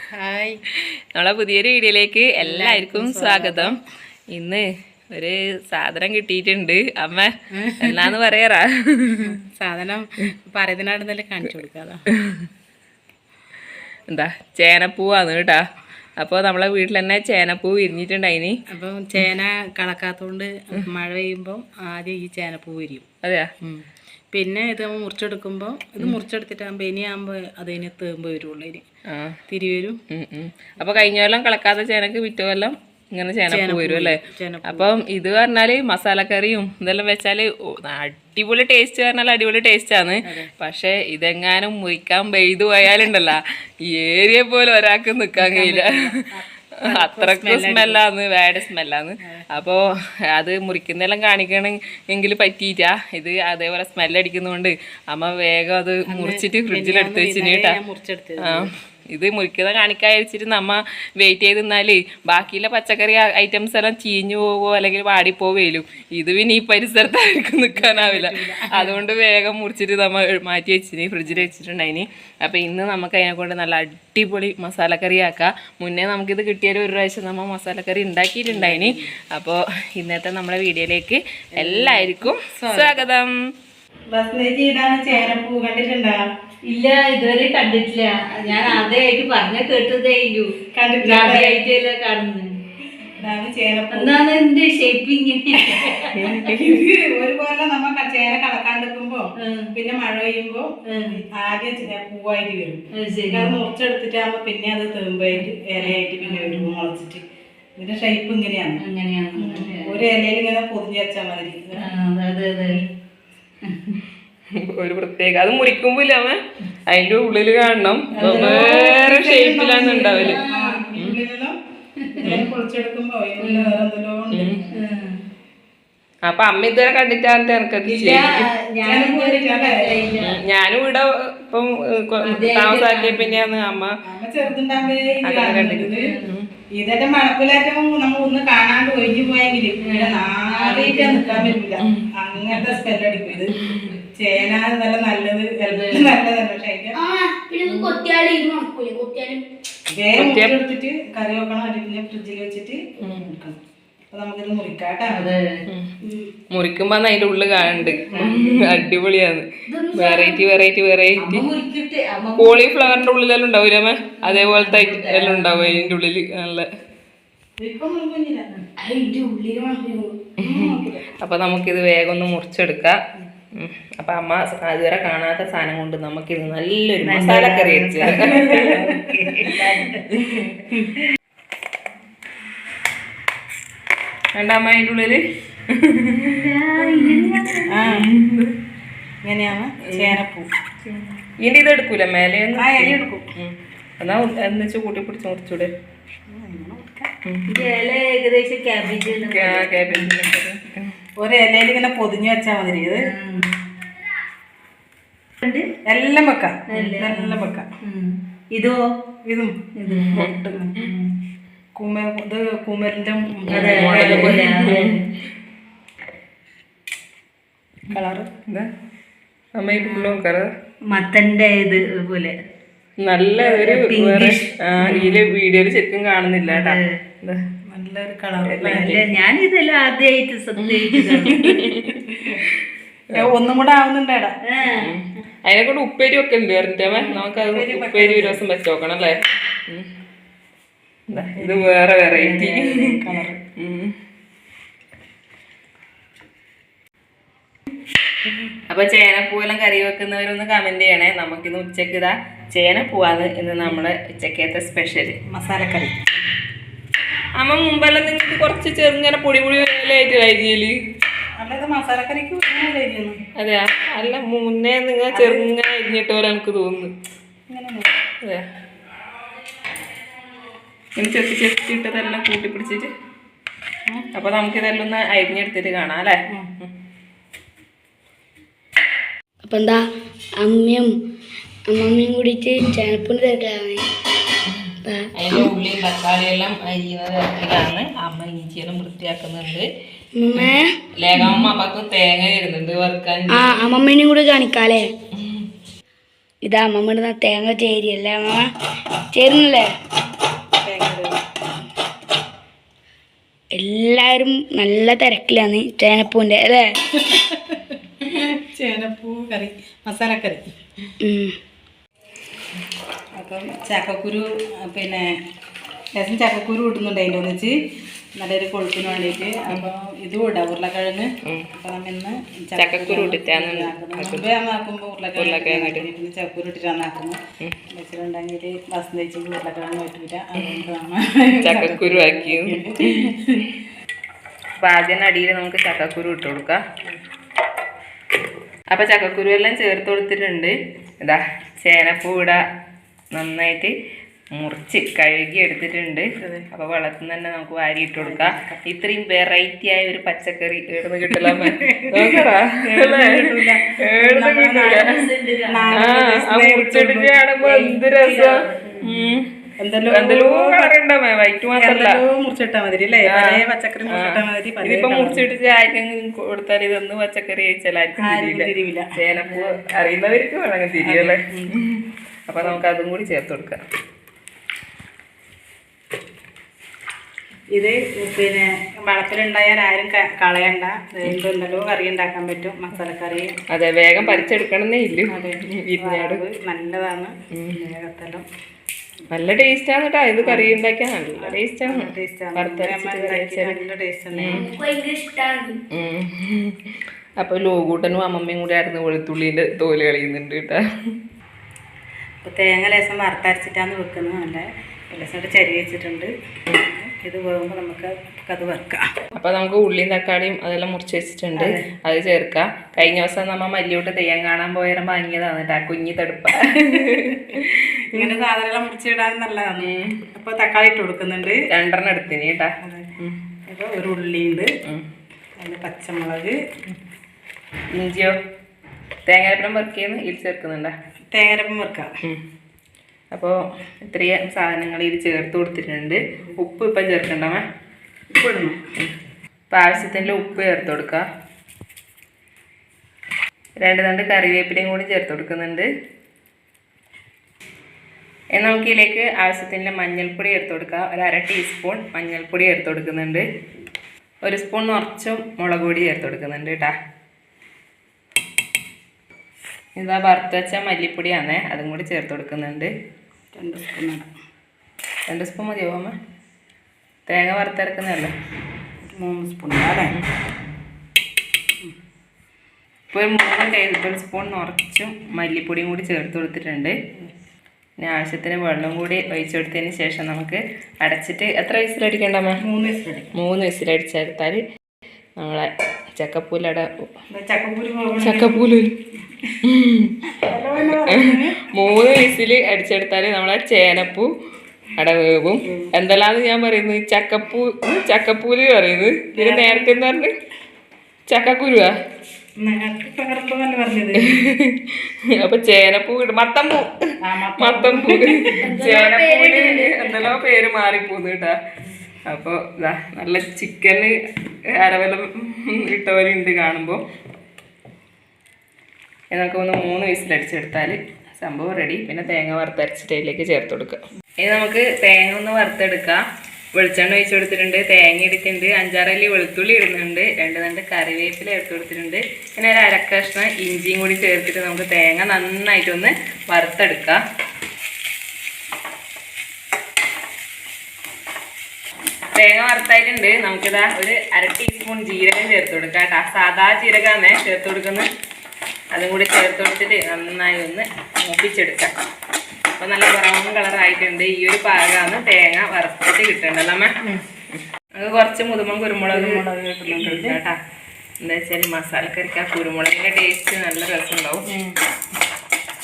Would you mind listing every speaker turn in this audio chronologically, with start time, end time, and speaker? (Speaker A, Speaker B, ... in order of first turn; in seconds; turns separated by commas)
Speaker A: 0.1-0.6, Speaker B: 0.8-3.8, Speaker A: 2.4-3.8, Speaker B: 4.3-9.3, Speaker A: 7.5-8.1, Speaker A: 9.2-12.0, Speaker B: 12.2-12.4, Speaker B: 14.1-15.6, Speaker B: 16.2-18.6, Speaker A: 18.7-23.1, Speaker B: 23.2-23.5, Speaker A: 24.3-28.8, Speaker B: 29.1-29.4, Speaker A: 29.5-30.0, Speaker B: 30.1-46.0, Speaker A: 33.5-34.9, Speaker A: 40.2-40.5, Speaker A: 45.4-48.0, Speaker B: 46.9-49.8, Speaker B: 50.3-57.8, Speaker A: 56.1-58.7, Speaker B: 58.4-83.3, Speaker A: 67.8-69.0, Speaker A: 78.5-79.1, Speaker A: 81.5-83.0, Speaker A: 84.1-86.2, Speaker C: 86.6-92.5, Speaker A: 90.7-91.6, Speaker A: 93.0-94.2, Speaker C: 93.9-96.5, Speaker A: 95.5-107.2, Speaker B: 96.2-96.8, Speaker C: 99.4-99.7, Speaker C: 100.9-101.2, Speaker C: 102.9-103.5, Speaker C: 105.3-106.7, Speaker A: 107.8-108.8, Speaker C: 108.8-110.1, Speaker A: 109.3-111.8, Speaker C: 111.8-112.8, Speaker C: 113.6-114.0, Speaker B: 114.5-120.4, Speaker A: 118.1-121.5, Speaker C: 120.0-120.8, Speaker C: 122.0-122.3, Speaker A: 122.2-124.6, Speaker C: 123.4-123.8, Speaker B: 124.3-124.7, Speaker C: 124.7-125.1, Speaker B: 126.2-128.4, Speaker C: 127.8-130.4, Speaker A: 128.8-129.9, Speaker B: 130.2-133.9, Speaker C: 132.2-133.4, Speaker A: 134.0-136.1, Speaker B: 135.2-136.5, Speaker C: 136.0-136.3, Speaker A: 136.7-143.6, Speaker C: 139.8-141.6, Speaker B: 141.8-142.1, Speaker B: 143.5-144.0, Speaker A: 144.1-147.0, Speaker C: 145.6-146.1, Speaker D: 146.9-149.4, Speaker C: 147.6-148.0, Speaker A: 149.9-153.6, Speaker B: 150.1-150.6, Speaker A: 154.1-155.3, Speaker C: 155.1-155.6, Speaker D: 156.0-156.3, Speaker B: 156.5-161.5, Speaker C: 158.0-158.8, Speaker D: 159.8-160.4, Speaker C: 161.2-162.7, Speaker B: 162.4-166.7, Speaker C: 164.2-165.9, Speaker A: 167.6-168.5, Speaker D: 168.8-170.2, Speaker B: 170.4-173.0, Speaker A: 170.4-171.0, Speaker B: 173.6-178.7, Speaker A: 177.0-179.6, Speaker C: 178.0-180.1, Speaker B: 179.5-180.5, Speaker B: 184.3-188.5, Speaker C: 186.2-187.8, Speaker A: 187.7-188.1, Speaker A: 189.2-190.5, Speaker B: 189.8-190.2, Speaker B: 190.8-195.7, Speaker A: 192.6-193.2, Speaker A: 196.3-197.1, Speaker C: 197.5-200.1, Speaker B: 199.3-200.9, Speaker A: 201.2-203.1, Speaker C: 203.0-203.5, Speaker A: 205.9-207.7, Speaker C: 206.7-208.8, Speaker A: 209.2-210.6, Speaker C: 209.8-211.1, Speaker B: 209.9-210.4, Speaker A: 211.8-214.5, Speaker C: 213.5-215.1, Speaker B: 213.5-215.0, Speaker A: 217.9-218.3, Speaker B: 219.6-220.5, Speaker C: 219.8-220.2, Speaker C: 220.9-222.3, Speaker B: 223.0-227.4, Speaker C: 223.4-225.2, Speaker C: 226.5-226.9, Speaker A: 227.7-229.0, Speaker B: 228.4-229.0, Speaker C: 228.6-231.6, Speaker B: 230.6-232.1, Speaker A: 232.1-232.4, Speaker A: 233.1-234.3, Speaker C: 234.4-234.9, Speaker B: 234.7-239.9, Speaker A: 236.9-238.5, Speaker B: 241.1-243.0, Speaker A: 241.3-243.4, Speaker B: 243.6-243.9, Speaker B: 248.7-255.2, Speaker A: 255.3-256.1, Speaker B: 257.4-260.7, Speaker A: 261.4-263.2, Speaker B: 263.4-266.9, Speaker A: 265.1-265.4, Speaker A: 267.5-267.9, Speaker B: 270.9-272.9, Speaker B: 274.1-276.7, Speaker D: 279.4-279.8, Speaker D: 280.4-280.9, Speaker D: 281.7-283.8, Speaker D: 284.8-285.5, Speaker B: 285.1-289.7, Speaker D: 290.2-290.7, Speaker B: 290.3-293.6, Speaker D: 293.3-294.9, Speaker D: 296.4-298.5, Speaker D: 299.1-299.7, Speaker A: 300.6-301.2, Speaker D: 303.5-306.7, Speaker A: 307.0-310.4, Speaker D: 311.0-311.4, Speaker A: 313.2-315.1, Speaker A: 316.0-317.5, Speaker A: 318.1-333.4, Speaker B: 322.6-324.3, Speaker B: 325.1-325.9, Speaker B: 331.4-333.1, Speaker B: 334.6-336.6, Speaker B: 338.7-342.4, Speaker B: 343.1-343.7, Speaker B: 344.3-353.3, Speaker A: 346.2-346.5, Speaker A: 348.0-348.6, Speaker A: 351.1-354.9, Speaker B: 353.8-354.9, Speaker C: 354.6-355.8, Speaker A: 355.5-357.1, Speaker B: 355.7-359.3, Speaker C: 357.4-359.1, Speaker A: 359.6-360.7, Speaker B: 359.9-362.0, Speaker A: 361.6-365.2, Speaker B: 363.1-373.6, Speaker A: 368.0-369.5, Speaker A: 370.8-371.6, Speaker A: 377.5-383.4, Speaker B: 383.5-386.2, Speaker A: 385.1-388.2, Speaker B: 387.3-387.6, Speaker B: 389.1-393.6, Speaker A: 390.2-390.6, Speaker A: 391.2-394.5, Speaker B: 394.1-394.4, Speaker D: 394.3-395.6, Speaker B: 395.7-400.6, Speaker A: 402.2-408.9, Speaker B: 409.1-418.1, Speaker A: 411.4-411.6, Speaker A: 416.6-417.4, Speaker A: 417.9-421.4, Speaker B: 419.6-420.0, Speaker B: 421.5-423.2, Speaker A: 422.6-424.5, Speaker A: 425.4-426.4, Speaker B: 427.7-428.1, Speaker B: 429.1-430.7, Speaker A: 431.1-431.9, Speaker B: 433.1-437.4, Speaker A: 438.1-438.6, Speaker B: 439.5-441.0, Speaker A: 439.8-440.2, Speaker B: 443.6-445.7, Speaker B: 448.3-453.2, Speaker B: 454.2-456.7, Speaker B: 459.8-462.7, Speaker A: 463.3-464.1, Speaker B: 465.1-465.9, Speaker B: 467.1-468.1, Speaker A: 468.9-469.9, Speaker B: 472.9-476.7, Speaker B: 477.8-482.4, Speaker A: 482.4-483.1, Speaker B: 483.1-484.4, Speaker B: 485.2-486.9, Speaker A: 487.1-488.4, Speaker B: 488.0-488.7, Speaker B: 489.4-490.0, Speaker A: 490.2-491.4, Speaker B: 490.9-494.1, Speaker B: 494.8-500.1, Speaker A: 495.4-495.7, Speaker A: 499.1-499.8, Speaker B: 501.1-501.7, Speaker A: 502.4-504.3, Speaker B: 504.0-504.6, Speaker B: 505.1-506.7, Speaker A: 507.0-508.4, Speaker B: 507.4-511.4, Speaker D: 508.4-510.1, Speaker B: 512.1-513.9, Speaker B: 514.5-516.8, Speaker B: 519.1-526.0, Speaker B: 526.5-537.0, Speaker B: 542.1-547.9, Speaker B: 548.7-551.7, Speaker B: 552.6-556.7, Speaker B: 557.3-560.3, Speaker A: 558.9-560.2, Speaker B: 561.0-564.2, Speaker A: 564.3-564.6